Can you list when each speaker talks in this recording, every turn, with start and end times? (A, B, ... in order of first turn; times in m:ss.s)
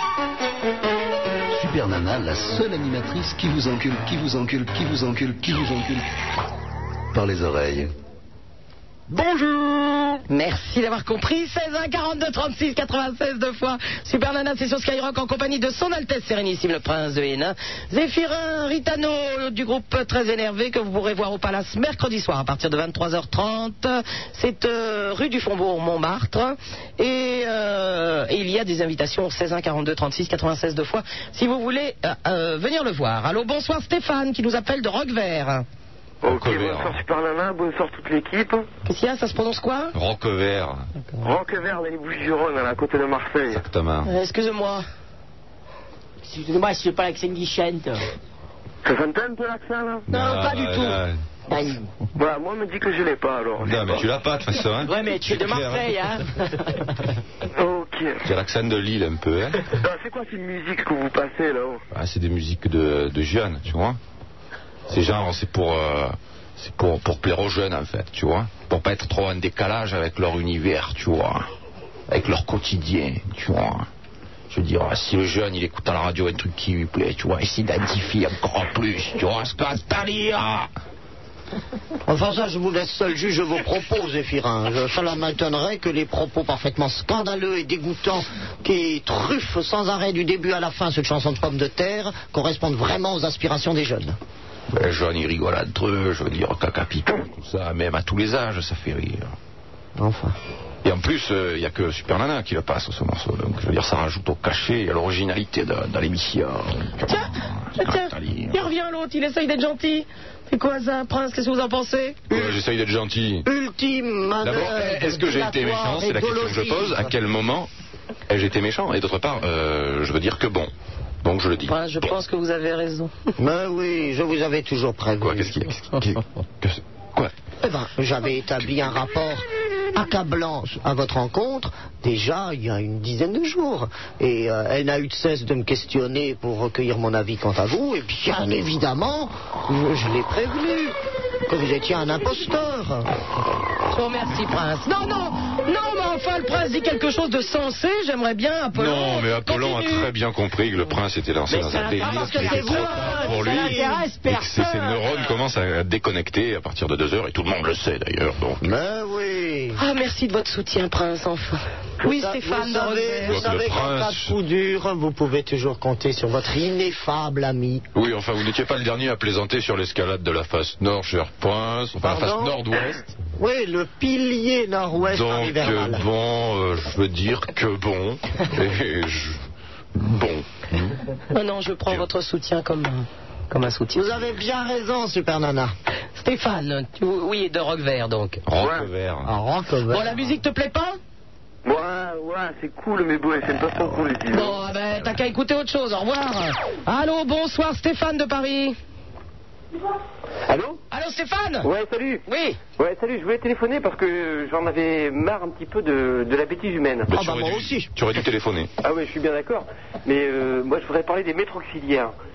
0:01.5-0:06.0 A
0:07.1-0:07.9 A
0:10.3-0:35.6 B
0:36.2-0:37.0 C
0:36.2-0:38.7 D
0:38.8-0:39.9 B
0:39.9-0:40.8 C
0:41.2-0:43.6 D
0:43.5-0:44.1 C
0:44.0-0:44.8 B
0:46.2-0:48.0 E
0:48.8-0:50.0 D
0:50.1-0:51.0 B
0:50.1-0:51.2 C
0:52.2-0:54.0 D
0:53.6-0:56.0 C
0:54.8-0:56.8 E
0:57.6-0:58.1 D
0:58.2-0:59.6 C
0:59.8-1:01.8 D
1:01.9-1:04.0 C
1:04.9-1:11.5 C
1:12.1-1:13.9 C
1:14.5-1:20.7 C
1:22.1-1:34.2 F
1:34.7-1:39.3 C
1:40.0-1:40.3 F
1:40.8-1:47.1 C
1:47.0-1:52.2 B
1:47.7-1:48.6 C
1:52.3-1:53.4 C
1:53.4-1:57.2 F
1:54.4-1:57.7 C
1:58.3-2:00.7 C
2:01.2-2:02.1 C
2:01.6-2:03.3 B
2:03.4-2:05.6 F
2:05.2-2:07.3 C
2:07.6-2:20.9 F
2:21.5-2:23.0 F
2:23.9-2:30.1 B
2:28.7-2:38.6 C
2:31.5-2:34.7 E
2:32.0-2:34.0 F
2:32.5-2:33.2 B
2:38.6-2:39.8 F
2:39.8-2:43.4 B
2:42.0-2:47.8 F
2:43.2-2:44.3 C
2:47.9-2:53.1 C
2:52.0-2:52.6 F
2:53.4-2:56.0 F
2:55.0-2:59.4 C
3:00.0-3:01.0 C
3:01.3-3:04.2 B
3:03.9-3:05.7 F
3:06.2-3:08.4 B
3:08.4-3:09.3 C
3:09.2-3:10.1 F
3:09.9-3:11.0 B
3:11.6-3:14.5 D
3:14.3-3:18.7 B
3:20.5-3:20.8 D
3:20.9-3:21.7 B
3:21.6-3:22.2 D
3:22.3-3:22.6 B
3:22.8-3:27.1 D
3:27.1-3:28.7 C
3:27.1-3:27.9 F
3:28.8-3:32.1 D